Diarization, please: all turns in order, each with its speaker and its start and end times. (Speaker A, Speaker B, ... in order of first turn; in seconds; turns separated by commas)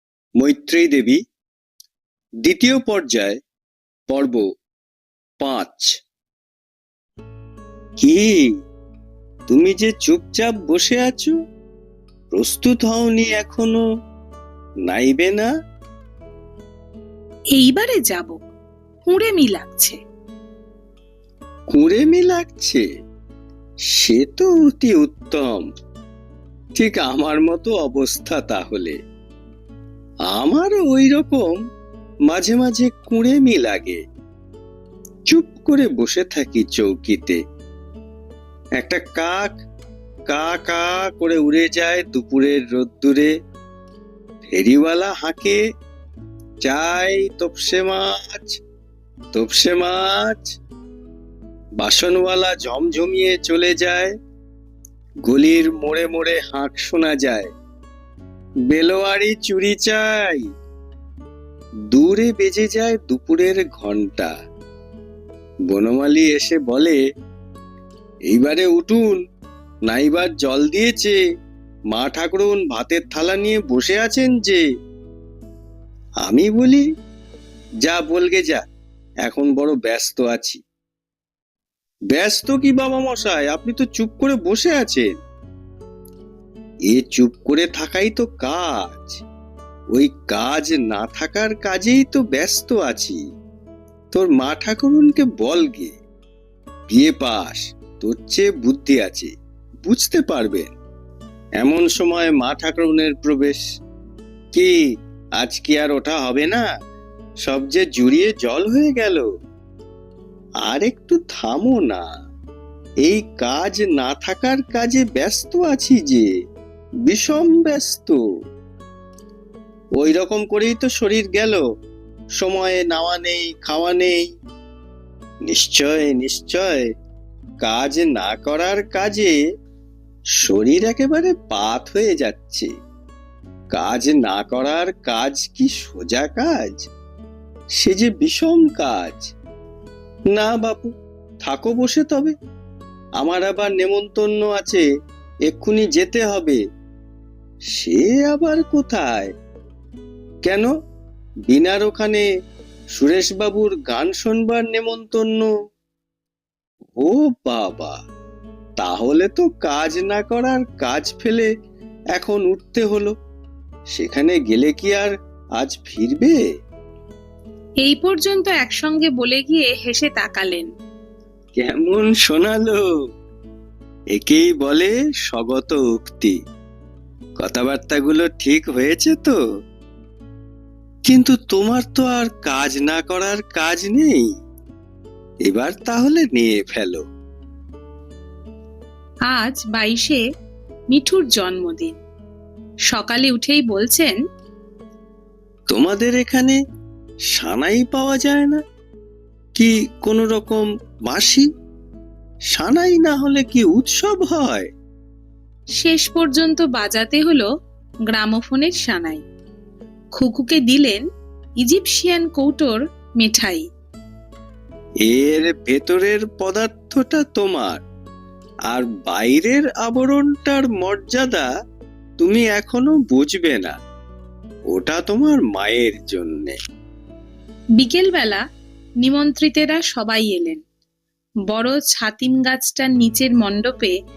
Speaker A: 0.4-1.2, Speaker A: 2.4-3.4, Speaker A: 4.1-4.4, Speaker A: 5.4-5.9, Speaker A: 8.0-8.5, Speaker A: 9.5-11.3, Speaker A: 12.3-13.8, Speaker A: 14.9-15.5, Speaker B: 17.5-18.4, Speaker B: 19.1-20.0, Speaker A: 21.7-22.8, Speaker A: 23.9-25.6, Speaker A: 26.8-28.9, Speaker A: 30.3-31.6, Speaker A: 32.3-34.0, Speaker A: 35.3-37.4, Speaker A: 38.8-39.5, Speaker A: 40.3-43.3, Speaker A: 44.4-45.6, Speaker A: 46.6-48.6, Speaker A: 49.3-50.5, Speaker A: 51.8-54.1, Speaker A: 55.2-57.5, Speaker A: 58.7-60.5, Speaker A: 61.9-64.3, Speaker A: 65.7-67.0, Speaker A: 68.3-69.2, Speaker A: 69.9-71.2, Speaker A: 71.9-74.6, Speaker A: 76.2-76.8, Speaker A: 77.8-78.6, Speaker A: 79.2-80.6, Speaker A: 82.1-85.1, Speaker A: 86.9-89.2, Speaker A: 89.9-93.2, Speaker A: 94.1-96.0, Speaker A: 96.9-99.3, Speaker A: 99.8-100.8, Speaker A: 101.6-103.6, Speaker A: 105.4-106.7, Speaker A: 107.4-109.3, Speaker A: 110.7-112.1, Speaker A: 113.0-116.3, Speaker A: 117.1-118.2, Speaker A: 120.0-121.6, Speaker A: 122.4-124.3, Speaker A: 125.5-126.9, Speaker A: 127.6-129.4, Speaker A: 130.4-132.7, Speaker A: 133.7-136.9, Speaker A: 137.8-139.3, Speaker A: 140.3-140.9, Speaker A: 141.4-142.3, Speaker A: 143.2-144.8, Speaker A: 145.5-146.6, Speaker A: 147.7-149.3, Speaker A: 150.4-150.7, Speaker A: 151.5-152.2, Speaker A: 153.0-155.5, Speaker A: 157.0-157.9, Speaker A: 158.8-161.5, Speaker A: 162.1-163.1, Speaker A: 163.9-166.3, Speaker B: 167.8-170.7, Speaker A: 171.6-172.8, Speaker A: 174.1-176.4, Speaker A: 177.4-179.3, Speaker A: 181.1-184.3, Speaker A: 185.5-187.0, Speaker B: 189.3-190.2, Speaker B: 190.9-191.9, Speaker B: 192.9-194.2, Speaker A: 195.7-196.6, Speaker A: 197.3-198.6, Speaker A: 199.6-201.5, Speaker A: 202.5-204.7, Speaker B: 205.8-207.5, Speaker B: 208.1-209.2, Speaker B: 210.2-211.0, Speaker B: 211.6-213.7, Speaker A: 215.0-217.8, Speaker A: 218.7-221.5, Speaker A: 222.2-223.7, Speaker A: 224.7-226.5, Speaker B: 227.8-228.4, Speaker B: 229.0-230.6, Speaker B: 231.5-233.9